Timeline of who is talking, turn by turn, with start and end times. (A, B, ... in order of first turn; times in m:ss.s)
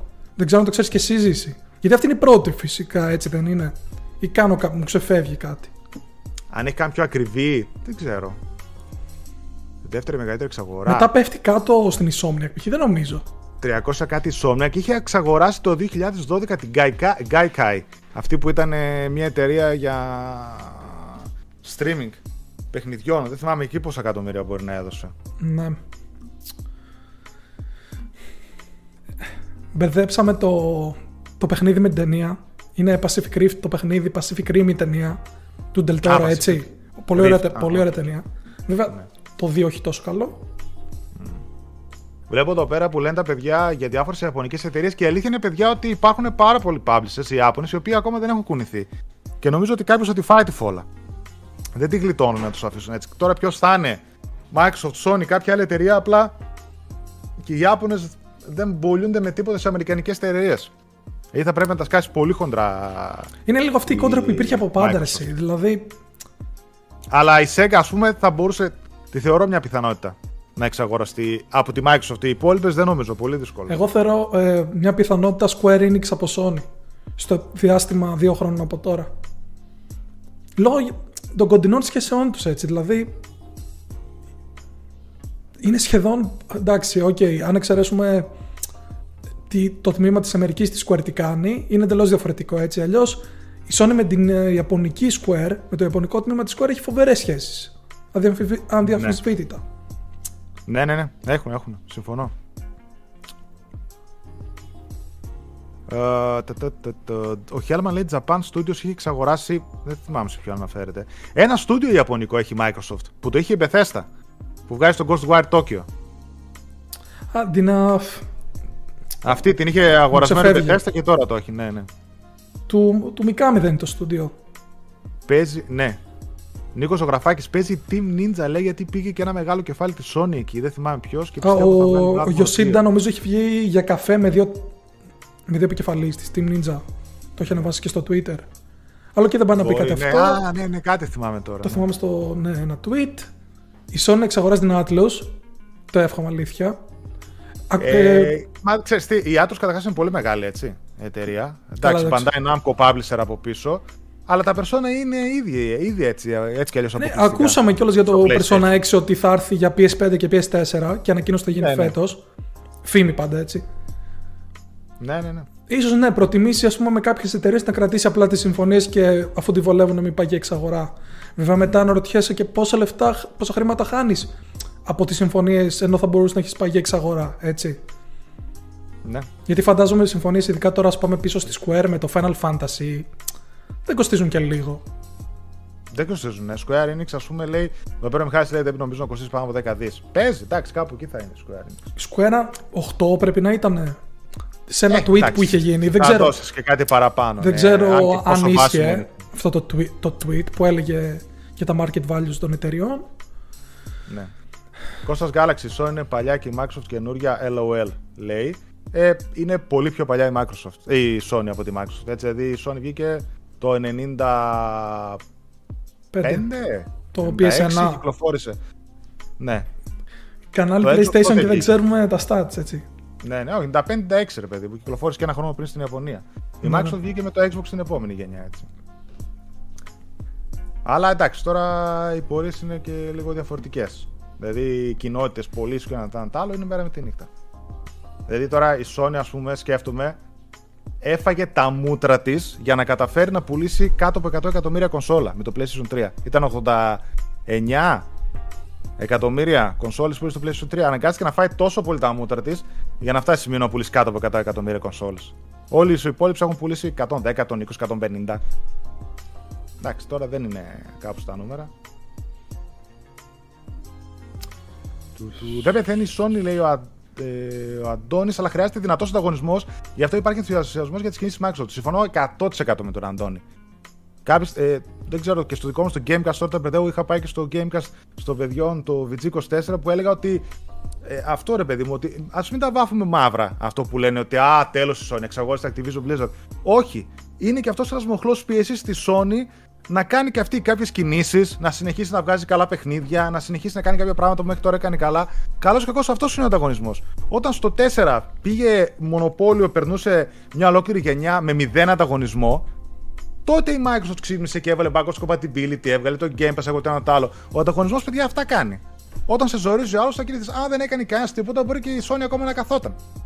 0:00.4-0:05.7 A
0:06.5-0:08.4 B
0:09.8-0:11.1 B
0:10.9-0:13.2 A
0:13.6-0:22.2 B
0:22.7-0:25.1 B
0:25.4-0:25.8 A
0:29.8-0:35.2 A
0:35.7-0:40.4 A
0:36.0-0:36.6 B
0:37.2-0:38.0 B
0:41.2-0:41.4 B
0:42.3-0:48.9 B
0:49.4-0:50.9 B
0:51.8-0:56.4 B
0:57.4-1:00.7 B
1:01.3-1:03.3 B
1:03.5-1:06.0 A
1:03.9-1:05.3 B
1:07.1-1:13.8 B
1:13.7-1:16.6 A
1:17.2-1:19.1 A
1:20.6-1:23.1 A
1:25.6-1:28.3 A
1:29.5-1:39.6 A
1:38.8-1:39.2 B
1:40.7-1:42.3 B
1:45.9-1:54.1 B
1:54.7-1:55.9 B
1:57.3-1:58.3 A
1:59.2-2:01.9 B
2:00.1-2:00.8 A
2:02.7-2:04.3 A
2:05.3-2:06.0 B
2:06.7-2:12.8 B
2:11.4-2:14.7 A
2:15.5-2:16.8 A
2:17.4-2:18.4 A
2:19.2-2:20.4 A
2:19.6-2:21.8 B
2:21.6-2:23.3 A
2:23.9-2:25.3 A
2:25.9-2:26.8 A
2:27.7-2:28.3 A
2:27.8-2:38.8 B
2:31.8-2:32.3 A
2:37.0-2:42.2 A
2:41.6-2:42.0 B
2:42.8-2:43.6 A
2:45.0-2:45.5 B
2:45.7-2:54.3 A
2:54.8-2:57.8 A
2:59.5-3:03.1 A
3:03.9-3:04.8 A
3:05.9-3:11.9 B
3:12.0-3:14.0 A
3:14.7-3:16.4 A
3:14.9-3:19.1 B
3:17.4-3:23.0 A
3:25.0-3:35.2 B
3:36.1-3:36.5 A
3:36.2-3:38.6 B
3:37.1-3:38.0 A
3:39.4-3:39.7 B
3:40.5-3:42.8 A
3:40.8-3:41.7 B
3:43.2-3:48.7 B
3:46.6-3:47.0 A
3:50.8-3:57.3 B
3:58.3-4:00.2 B
4:01.0-4:08.1 B
4:09.0-4:18.4 B
4:19.8-4:21.7 B
4:25.2-4:33.4 B
4:34.2-4:40.4 B
4:41.0-5:02.7 B
5:03.5-5:13.0 B